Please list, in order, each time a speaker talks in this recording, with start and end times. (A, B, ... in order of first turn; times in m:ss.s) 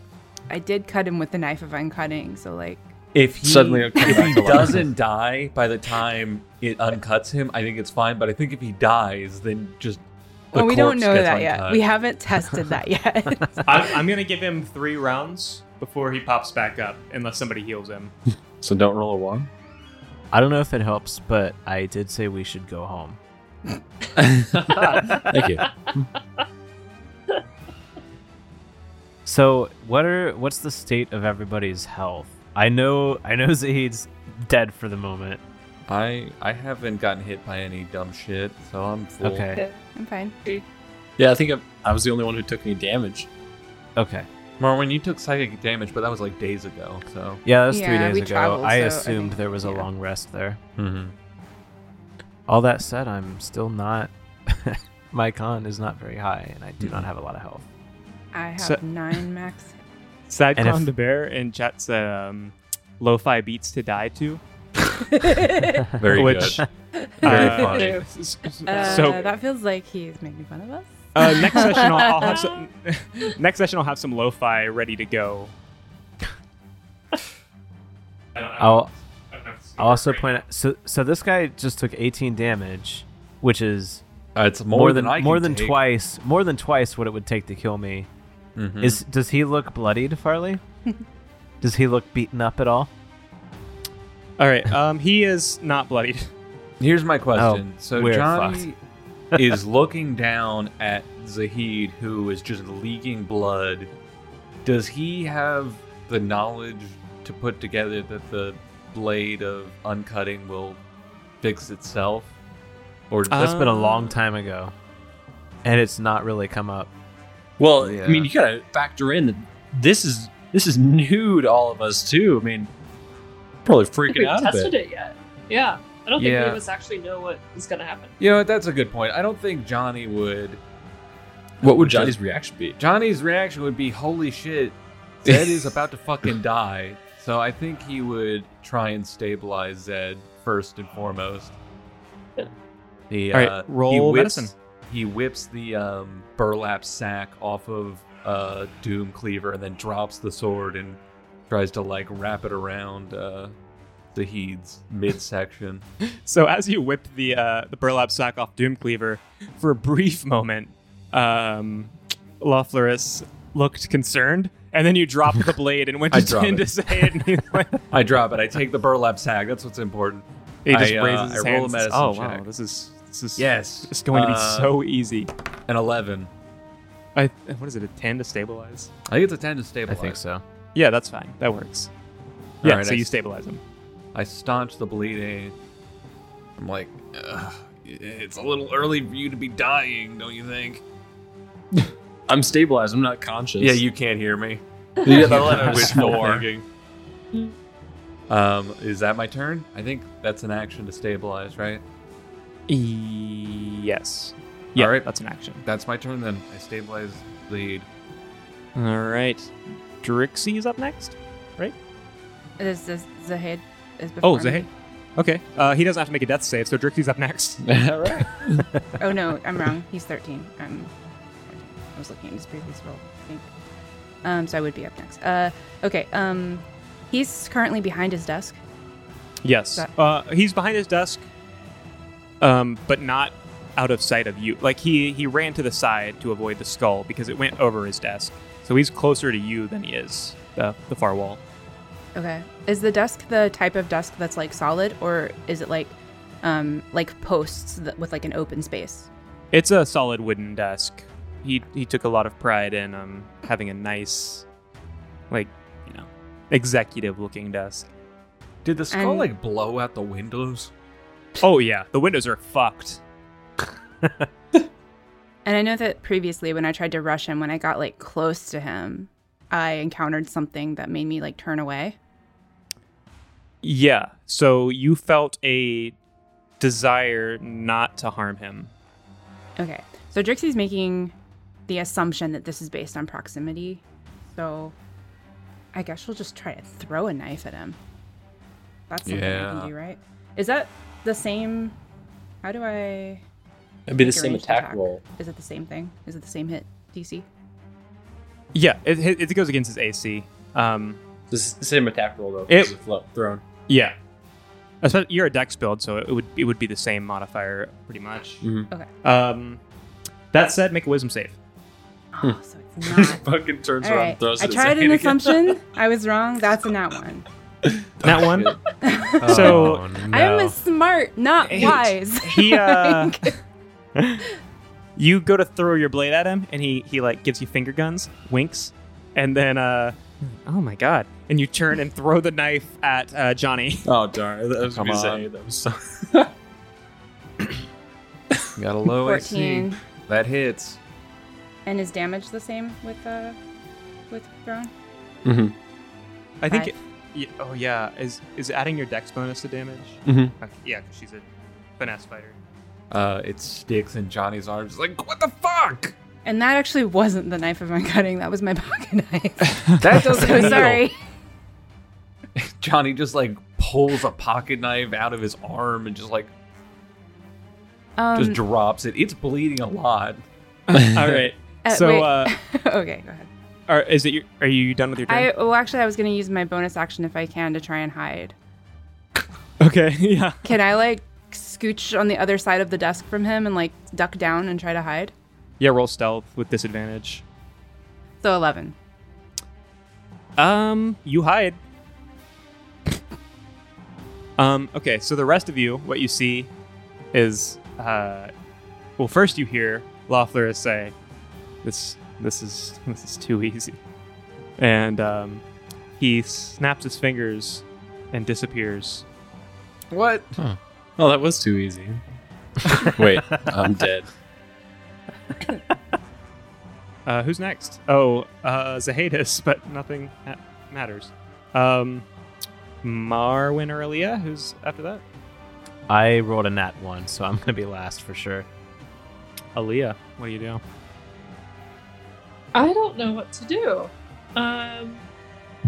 0:00.5-0:02.9 A
0:03.1-0:11.8 B
0:03.4-0:04.8 C
0:04.0-0:04.7 A
0:10.5-0:13.9 A
0:13.6-0:18.1 D
0:18.6-0:19.5 C
0:20.3-0:23.2 E
0:24.2-0:26.1 C
0:24.8-0:26.4 F
0:29.2-0:35.4 E
0:35.9-0:39.5 B
0:39.2-0:39.6 E
0:39.5-0:39.8 F
0:40.0-0:40.3 A
0:41.2-0:43.3 C
0:44.0-0:44.3 E
0:44.6-0:47.4 B
0:47.4-0:50.6 E
0:47.7-0:49.9 A
0:50.8-0:51.1 B
0:52.5-0:57.6 E
0:56.8-0:57.1 B
0:58.3-0:59.7 A
1:00.3-1:04.4 D
1:00.6-1:00.9 E
1:05.2-1:05.8 A
1:06.0-1:06.6 B
1:06.1-1:06.6 D
1:06.2-1:06.6 E
1:07.2-1:07.7 A
1:07.2-1:09.3 D
1:07.2-1:08.0 B
1:07.3-1:08.1 F
1:08.7-1:12.4 A
1:08.7-1:09.3 F
1:11.1-1:15.5 D
1:11.5-1:12.6 F
1:18.3-1:20.4 D
1:18.6-1:18.9 E
1:19.8-1:24.0 E
1:24.3-1:25.8 B
1:24.7-1:28.1 E
1:28.6-1:29.0 B
1:28.8-1:30.6 E
1:31.6-1:32.9 E
1:34.4-1:36.3 D
1:36.8-1:38.8 B
1:37.4-1:38.7 E
1:39.3-1:43.9 B
1:44.6-1:50.8 B
1:51.4-1:52.3 B
1:53.1-1:53.5 B
1:53.3-1:54.2 D
1:53.4-1:54.7 E
1:55.6-1:56.9 E
1:57.6-2:02.7 C
1:57.8-1:58.3 B
2:03.6-2:04.7 C
2:04.1-2:08.2 F
2:06.2-2:06.6 B
2:08.2-2:10.6 B
2:11.6-2:12.2 B
2:11.6-2:12.8 C
2:12.8-2:21.6 B
2:15.3-2:15.6 C
2:23.1-2:33.5 B
2:23.3-2:24.5 D
2:34.1-2:35.8 B
2:36.0-2:47.8 D
2:46.1-2:47.1 B
2:47.9-2:52.4 B
2:50.6-2:55.3 D
2:53.4-2:54.7 B
2:55.7-2:56.3 B
2:57.1-2:58.9 D
2:59.1-3:00.2 B
2:59.9-3:00.4 E
3:00.7-3:01.9 D
3:02.6-3:03.6 D
3:02.6-3:03.1 B
3:04.1-3:05.5 B
3:06.6-3:10.8 B
3:12.3-3:13.8 C
3:13.6-3:16.6 B
3:15.0-3:16.4 C
3:18.3-3:21.8 B
3:22.7-3:25.6 D
3:24.7-3:25.1 B
3:25.6-3:27.9 B
3:28.7-3:31.7 D
3:32.6-3:34.7 A
3:34.2-3:34.6 D
3:35.2-3:37.7 D
3:37.6-3:38.6 C
3:39.0-3:40.9 A
3:41.5-3:43.5 A
3:44.2-3:48.6 A
3:49.4-3:51.2 D
3:52.4-4:01.4 D
4:02.1-4:09.1 A
4:09.5-4:14.4 D
4:15.3-4:17.9 D
4:18.6-4:20.7 B
4:18.9-4:19.3 A
4:21.4-4:23.0 D
4:25.4-4:32.0 A
4:33.6-4:36.0 D
4:36.6-4:38.7 D
4:39.6-4:41.1 A
4:41.7-4:44.7 A
4:45.7-4:47.8 A
4:48.9-4:51.7 A
4:49.0-4:49.7 B
4:52.4-4:53.2 A
4:53.9-4:55.0 C
4:54.0-4:57.3 A
4:58.5-5:01.0 D
5:01.3-5:03.4 C
5:02.5-5:02.7 D
5:03.7-5:03.9 D
5:04.8-5:08.4 D
5:08.4-5:08.7 C
5:09.0-5:09.6 D
5:10.3-5:11.4 D
5:12.1-5:13.2 A
5:12.2-5:15.5 C
5:13.8-5:17.2 A
5:17.8-5:18.6 C
5:18.0-5:18.6 D
5:18.8-5:23.4 A
5:19.2-5:20.5 E
5:19.2-5:19.9 D
5:21.4-5:23.3 D
5:24.0-5:24.2 D
5:25.0-5:33.9 D
5:33.8-5:36.3 C
5:34.7-5:35.3 B
5:38.6-5:40.8 B
5:39.0-5:39.8 A
5:41.6-5:43.4 A
5:44.1-5:44.7 A
5:45.2-5:45.5 C
5:46.4-5:51.2 D
5:50.0-5:50.3 C
5:51.8-5:52.4 D
5:52.9-5:55.9 B
5:56.2-6:01.0 A
5:59.6-6:00.6 D
5:59.8-6:00.8 B
6:02.4-6:06.3 B
6:08.0-6:08.4 A
6:08.1-6:10.2 B
6:10.7-6:12.3 D
6:11.7-6:13.3 A
6:13.7-6:15.3 D
6:15.1-6:18.3 A
6:19.6-6:20.4 D
6:20.4-6:25.1 A
6:25.6-6:27.2 D
6:28.2-6:28.7 A
6:30.4-6:31.6 D
6:34.4-6:36.5 D
6:37.1-6:38.3 D
6:39.0-6:40.9 D
6:41.6-6:43.8 D
6:44.6-6:45.4 D
6:46.0-6:49.0 D
6:49.9-6:50.4 B
6:51.0-6:52.0 C
6:52.9-6:54.1 C
6:57.0-7:02.0 D
7:02.8-7:05.0 D
7:05.9-7:08.5 E
7:09.5-7:10.6 D
7:12.5-7:15.0 F